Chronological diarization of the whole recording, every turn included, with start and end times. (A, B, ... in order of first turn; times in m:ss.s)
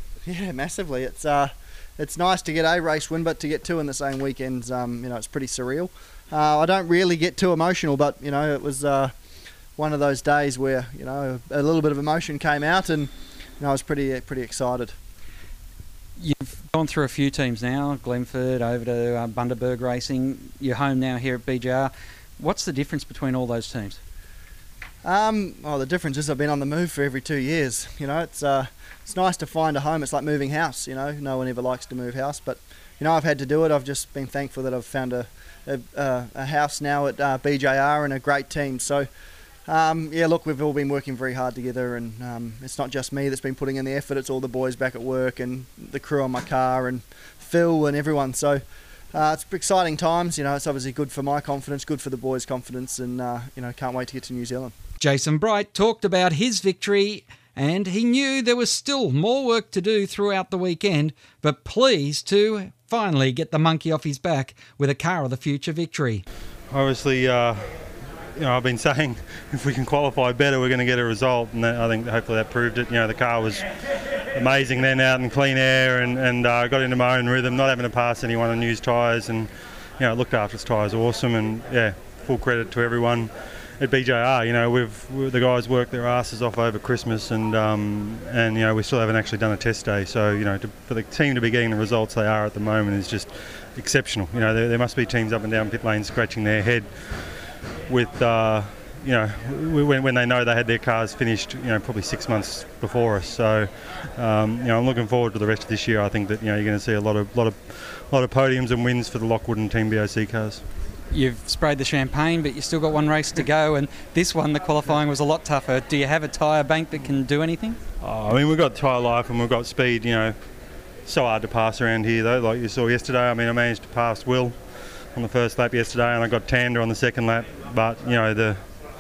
0:00.3-0:09.1 A
0:09.8-0:15.0 A
0:16.2-0:24.0 B
0:25.0-0:39.1 A
0:39.7-0:48.6 A
0:49.1-0:54.8 A
0:55.0-1:06.2 B
1:06.7-1:07.8 C
1:08.4-1:13.6 C
1:14.3-1:37.4 C
1:37.9-1:50.6 C
1:51.1-1:57.8 B
1:58.0-2:00.4 C
2:01.1-2:04.6 C
2:05.2-2:08.6 C